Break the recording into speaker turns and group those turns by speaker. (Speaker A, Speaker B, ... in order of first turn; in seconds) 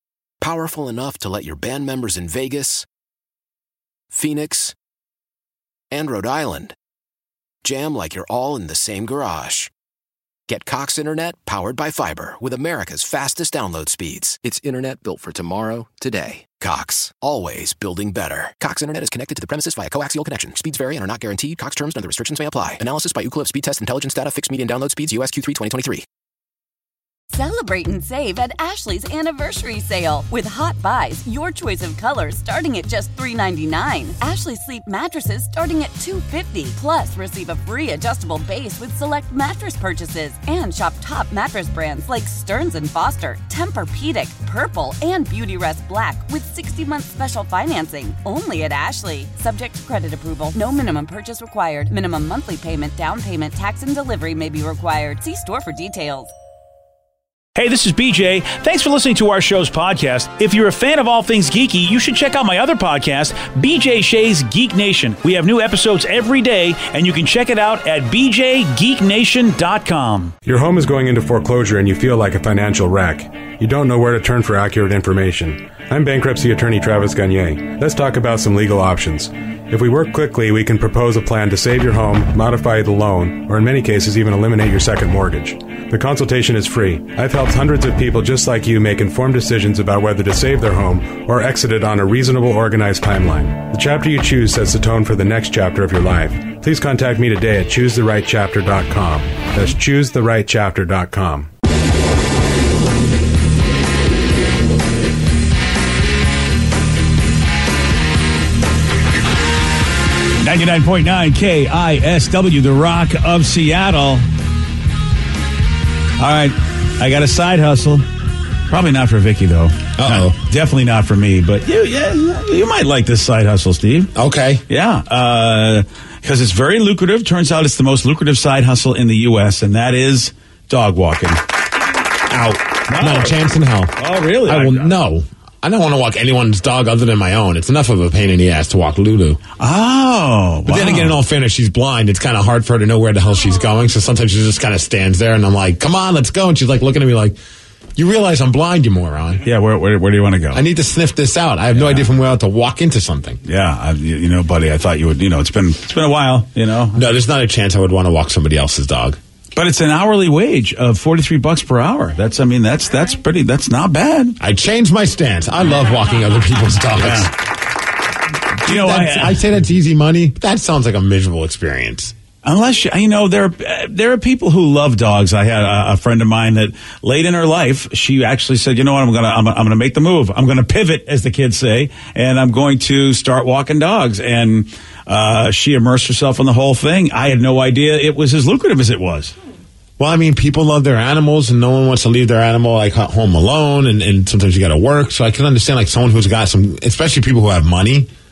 Speaker A: 0.4-2.9, 4.1-4.7, 5.9-6.8, 7.6-9.7, 10.5-26.1
Speaker B: 27.3-56.3
Speaker C: 57.5-70.3, 110.4-114.2, 116.2-118.1, 118.7-124.1, 124.7-131.4, 132.9-133.4, 133.9-134.9, 139.6-141.2, 149.4-150.6, 151.7-152.1, 153.4-157.0, 159.6-164.4, 167.0-167.3, 168.6-169.4, 172.4-189.3
Speaker D: 70.5-101.5
Speaker E: 120.0-120.4, 124.2-124.6, 132.3-139.4, 140.7-147.4, 147.9-149.4, 150.5-153.4, 156.9-159.2, 164.4-167.3, 168.6-172.1, 190.0-198.1